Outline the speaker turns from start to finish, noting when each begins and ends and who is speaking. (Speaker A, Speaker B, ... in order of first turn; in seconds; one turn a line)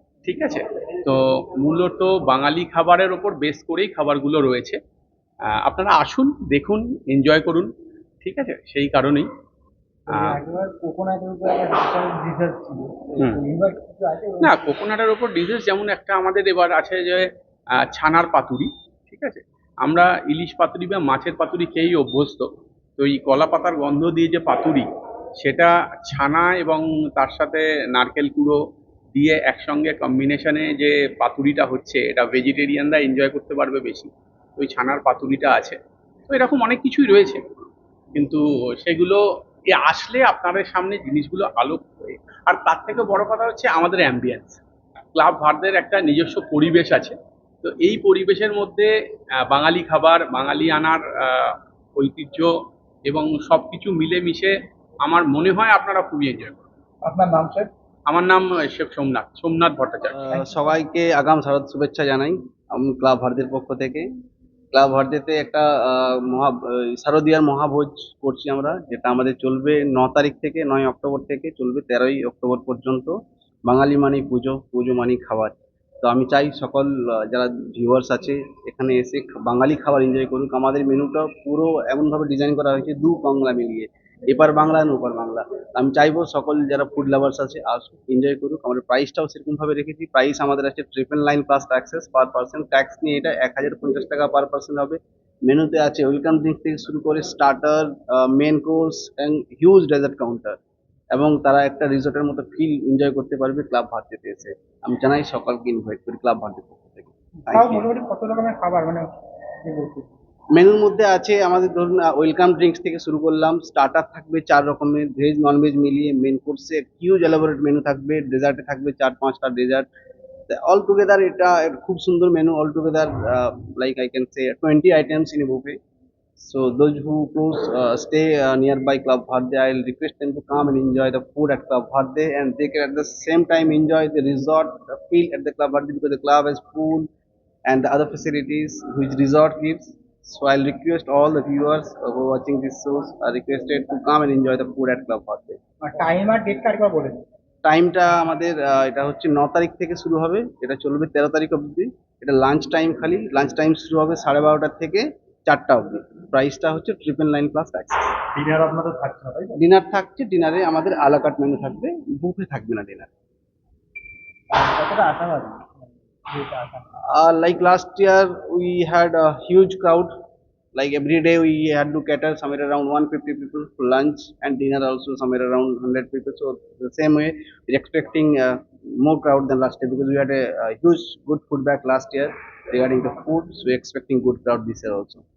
Speaker A: 0.2-4.8
Speaker A: 5.6-7.7
Speaker A: 8.2-9.3
Speaker B: 10.1-14.6
Speaker A: 14.4-17.3
Speaker A: 17.8-24.9
Speaker A: 25.4-28.6
Speaker A: 29.1-35.8
Speaker A: 36.3-37.4
Speaker A: 38.1-39.2
Speaker A: 39.7-44.6
Speaker A: 45.1-48.9
Speaker A: 49.5-52.5
Speaker A: 53.0-56.6
Speaker B: 57.0-57.7
Speaker A: 58.1-60.3
Speaker C: 60.1-64.1
Speaker C: 64.7-73.2
Speaker C: 73.7-100.6
Speaker C: 101.1-107.8
Speaker B: 107.5-109.1
Speaker B: 109.6-110.1
Speaker C: 110.5-119.9
Speaker C: 120.5-125.8
Speaker C: 126.4-137.1
Speaker C: 137.7-145.6
Speaker B: 145.8-147.2
Speaker C: 147.6-158.2
Speaker B: 158.3-159.6
Speaker C: 159.6-163.1
Speaker B: 164.5-166.9
Speaker C: 167.1-170.1
Speaker C: 170.7-185.2